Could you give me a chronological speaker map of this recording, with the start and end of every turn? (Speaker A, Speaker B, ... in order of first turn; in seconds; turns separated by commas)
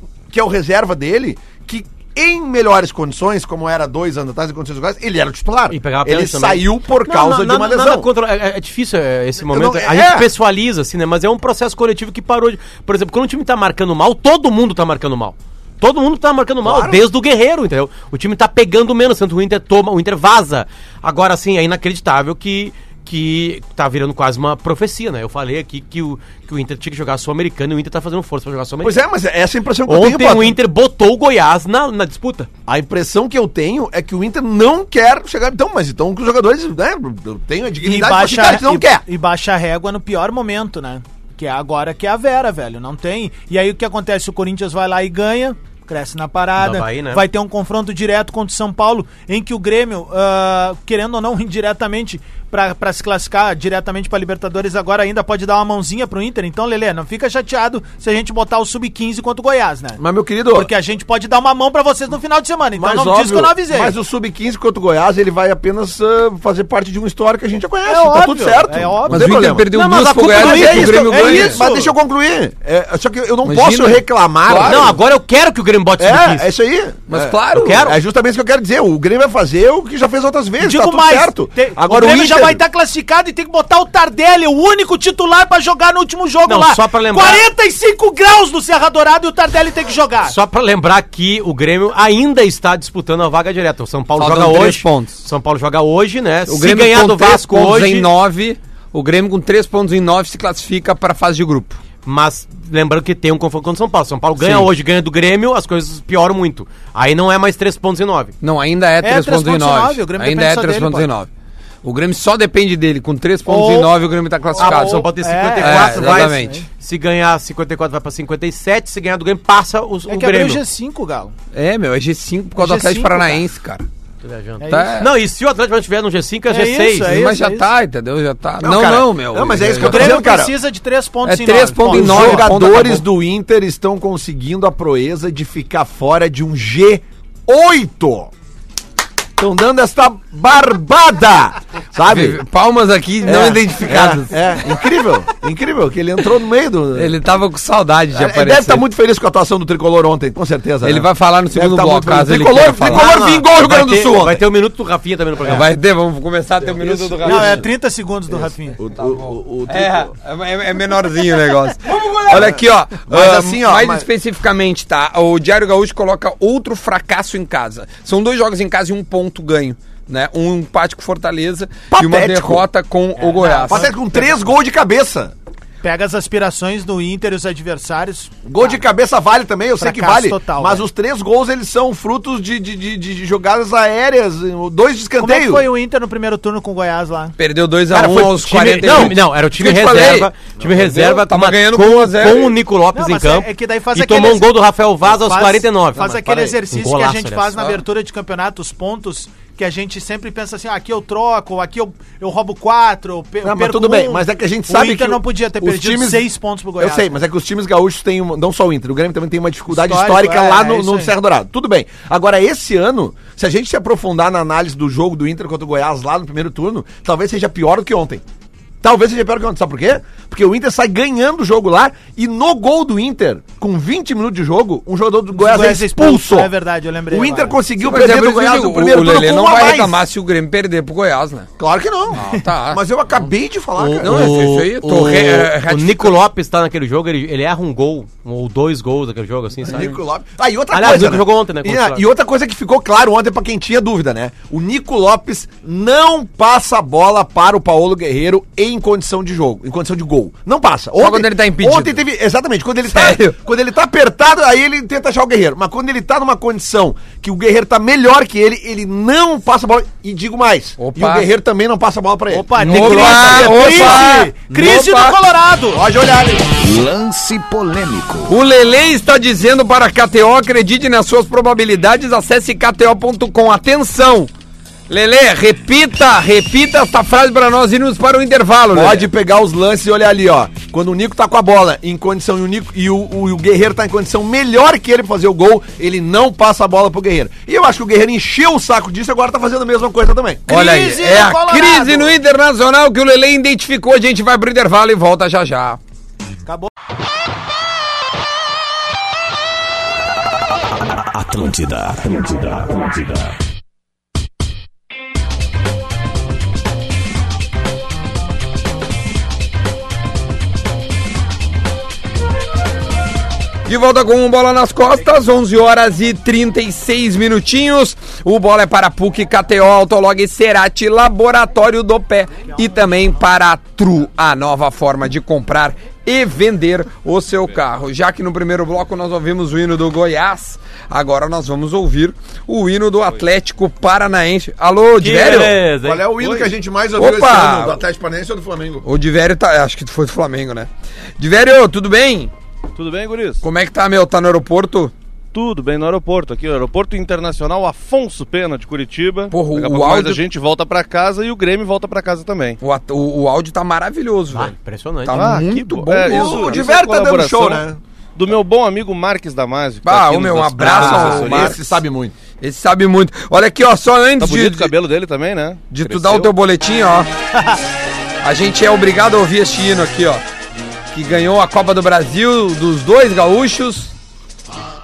Speaker A: 0.3-8.1, Speaker B: 5.7-29.0, Speaker A: 9.4-10.3, Speaker A: 16.6-17.0, Speaker A: 28.8-30.6, Speaker B: 29.9-32.5, Speaker A: 32.7-39.0, Speaker C: 37.8-63.9, Speaker B: 46.6-47.2, Speaker A: 60.0-60.7, Speaker A: 62.8-69.7, Speaker C: 67.8-69.3, Speaker D: 69.1-71.6, Speaker B: 69.7-71.2, Speaker A: 70.3-75.0, Speaker C: 70.4-71.9, Speaker D: 73.4-75.0, Speaker B: 74.5-76.5, Speaker A: 76.0-82.6, Speaker D: 77.1-77.9, Speaker B: 77.5-78.0, Speaker C: 80.6-90.4, Speaker B: 86.5-87.4, Speaker B: 90.2-98.1, Speaker D: 94.2-95.2, Speaker D: 96.5-101.8, Speaker B: 102.0-108.3, Speaker D: 104.4-104.7, Speaker D: 108.4-111.3, Speaker C: 109.0-111.1, Speaker D: 111.8-115.1, Speaker C: 113.5-113.9, Speaker C: 114.5-116.7, Speaker B: 114.6-120.6, Speaker D: 115.6-116.6, Speaker C: 120.1-121.3, Speaker D: 121.5-123.9, Speaker C: 122.6-123.4, Speaker B: 124.2-127.1, Speaker C: 124.6-125.0, Speaker D: 124.7-125.1, Speaker C: 126.5-127.7, Speaker D: 127.0-130.2, Speaker A: 128.6-130.5, Speaker C: 129.8-132.5, Speaker D: 131.2-133.0, Speaker A: 131.9-138.3, Speaker A: 139.4-142.4, Speaker D: 142.1-144.8, Speaker A: 143.2-147.2, Speaker D: 146.9-148.8, Speaker A: 148.1-154.4, Speaker D: 150.8-153.2, Speaker B: 152.8-155.7, Speaker D: 155.4-157.6, Speaker B: 156.8-157.6, Speaker A: 157.2-157.6, Speaker C: 157.2-158.8, Speaker A: 158.3-160.1, Speaker D: 159.1-173.9, Speaker A: 161.9-164.1, Speaker A: 171.9-172.7, Speaker C: 173.2-174.4, Speaker A: 173.7-175.3, Speaker C: 175.8-178.8, Speaker A: 178.4-185.7, Speaker C: 179.8-180.8, Speaker C: 185.2-187.3, Speaker D: 187.4-192.6, Speaker A: 187.9-189.1, Speaker B: 188.0-197.8, Speaker C: 192.9-194.5, Speaker C: 195.1-207.2, Speaker A: 203.4-206.3, Speaker A: 206.8-218.2, Speaker C: 209.7-211.1, Speaker A: 218.8-226.5, Speaker C: 225.3-227.6, Speaker A: 227.1-230.0, Speaker D: 227.8-231.5, Speaker A: 231.6-234.3, Speaker D: 232.2-232.8, Speaker B: 233.8-239.9, Speaker D: 234.0-236.2, Speaker A: 239.7-265.1, Speaker B: 240.7-242.0, Speaker D: 251.0-252.0, Speaker D: 252.9-253.3, Speaker D: 260.8-261.3, Speaker C: 262.3-265.8, Speaker D: 262.6-265.2, Speaker A: 265.7-266.5, Speaker E: 266.6-268.3, Speaker D: 268.3-274.3, Speaker D: 274.9-279.1, Speaker A: 278.7-290.5, Speaker C: 290.5-292.1, Speaker D: 290.5-295.8, Speaker C: 296.4-296.7, Speaker E: 300.7-303.4, Speaker D: 313.7-335.6, Speaker B: 335.0-336.0, Speaker A: 335.8-338.9, Speaker F: 336.2-336.5, Speaker D: 337.0-337.8, Speaker D: 338.8-342.3, Speaker F: 342.8-343.4, Speaker D: 343.4-344.9, Speaker F: 345.3-352.6, Speaker D: 349.3-350.2, Speaker D: 352.6-354.5, Speaker B: 354.3-355.4, Speaker D: 355.0-356.6, Speaker F: 355.1-361.6, Speaker A: 356.0-357.8, Speaker D: 359.8-361.7, Speaker A: 360.6-362.1, Speaker D: 362.4-364.7, Speaker F: 364.2-366.3, Speaker D: 365.7-367.1, Speaker D: 368.2-370.2, Speaker D: 370.9-373.9